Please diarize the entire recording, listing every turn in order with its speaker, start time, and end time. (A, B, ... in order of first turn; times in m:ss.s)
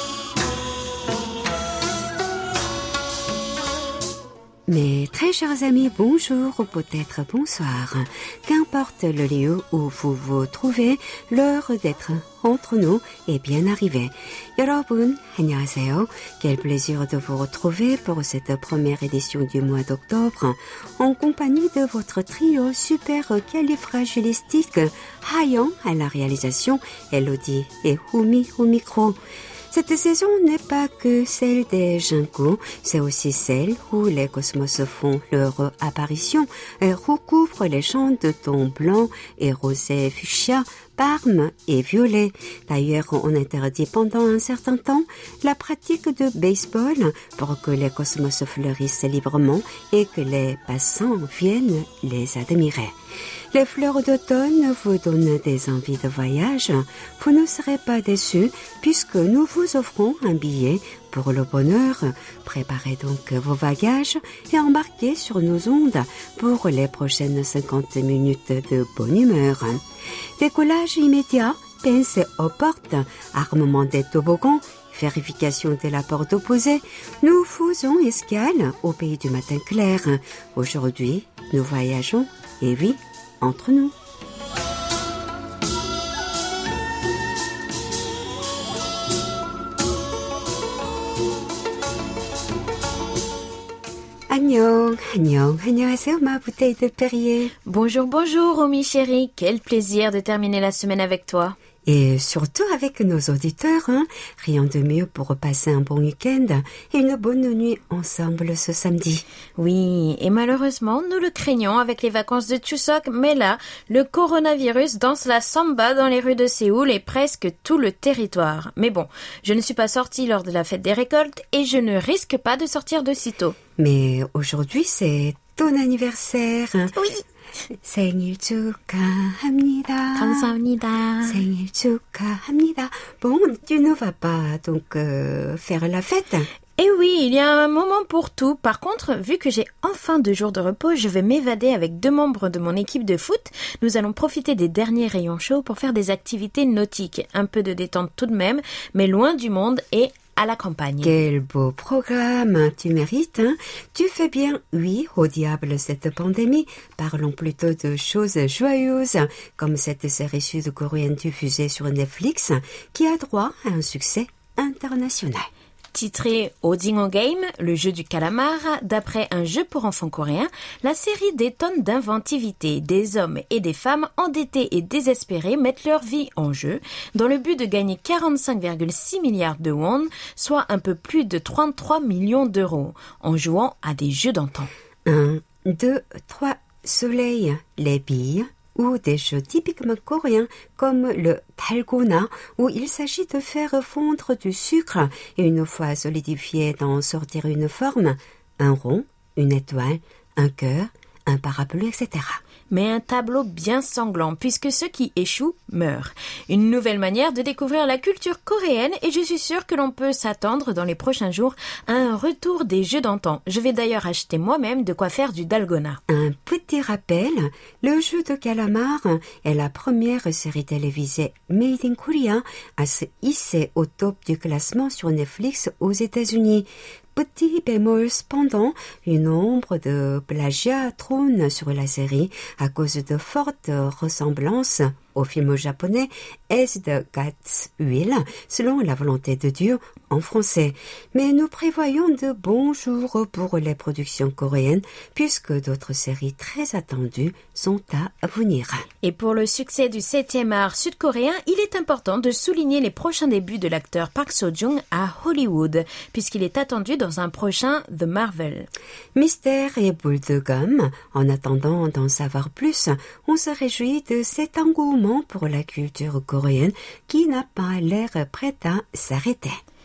0:04.7-0:29.2 A
0:29.7-0:53.0 A
0:53.5-1:09.8 A
1:10.4-1:23.9 A
1:34.3-1:37.5 A
1:37.7-1:41.6 B
1:41.8-1:49.2 A
1:49.6-2:03.6 B
2:03.8-2:07.0 A
2:07.0-2:07.2 B
2:07.7-2:10.5 A
2:10.2-2:11.4 B
2:11.2-2:16.5 A
2:16.8-2:31.2 B
2:31.0-2:45.5 A
2:45.9-3:04.7 B
3:05.0-3:22.4 A
3:22.7-3:36.0 B
3:36.1-4:08.9 A
4:09.0-4:18.7 B
4:19.2-4:29.6 A